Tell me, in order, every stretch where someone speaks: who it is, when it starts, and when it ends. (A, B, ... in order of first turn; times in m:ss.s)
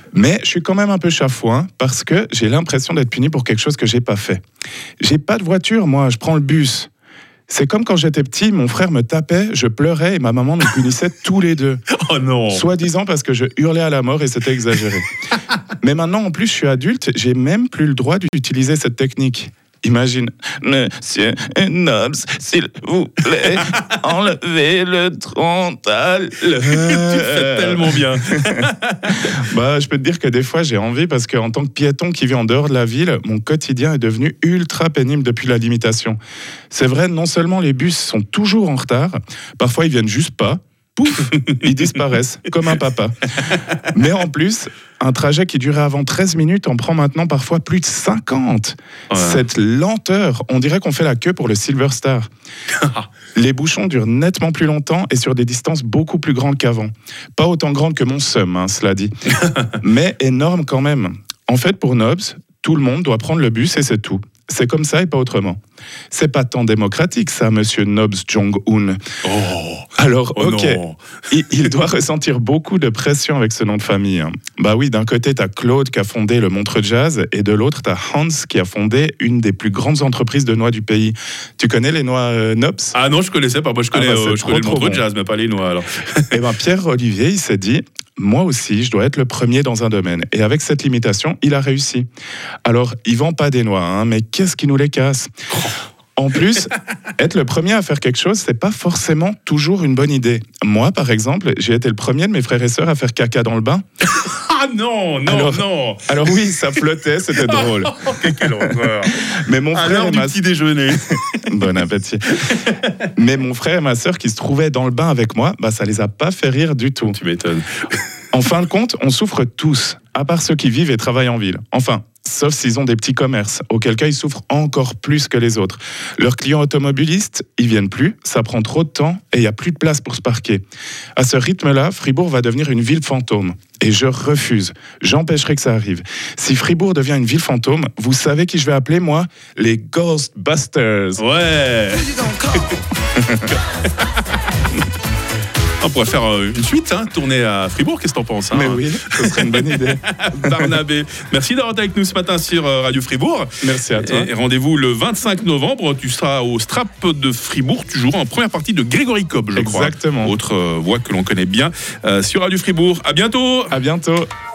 0:00.1-0:04.4 A
0:05.0-0:06.9 A
0:07.5-0:11.8 A
0:12.0-0:12.7 B
0:12.5-0:15.1 A
0:15.8-0:36.2 A
0:26.4-0:29.4 B
0:36.7-0:43.2 A
0:41.3-0:41.6 B
0:43.5-0:43.8 B
0:43.9-0:52.3 A
0:49.1-0:49.4 B
0:52.8-0:53.1 B
0:53.4-0:59.1 A
0:59.4-0:59.7 B
0:59.8-1:05.6 A
1:06.1-1:09.0 A
1:09.2-1:11.0 B
1:10.0-1:23.0 A
1:22.9-1:26.4 B
1:23.9-1:25.0 A
1:26.3-1:32.1 A
1:32.6-1:35.3 A
1:36.2-1:43.8 A
1:44.1-1:46.4 B
1:45.3-1:50.4 A
1:47.4-1:51.5 B
1:50.9-1:52.6 A
1:52.5-1:52.9 B
1:53.1-1:57.2 A
1:57.1-1:57.7 B
1:58.3-2:10.6 A
2:11.2-2:21.2 A
2:21.2-2:22.8 B
2:23.2-2:23.5 A
2:23.5-2:24.2 B
2:25.8-2:43.8 B
2:28.5-2:30.7 A
2:33.6-2:34.3 A
2:39.6-2:40.4 A
2:43.7-2:44.3 A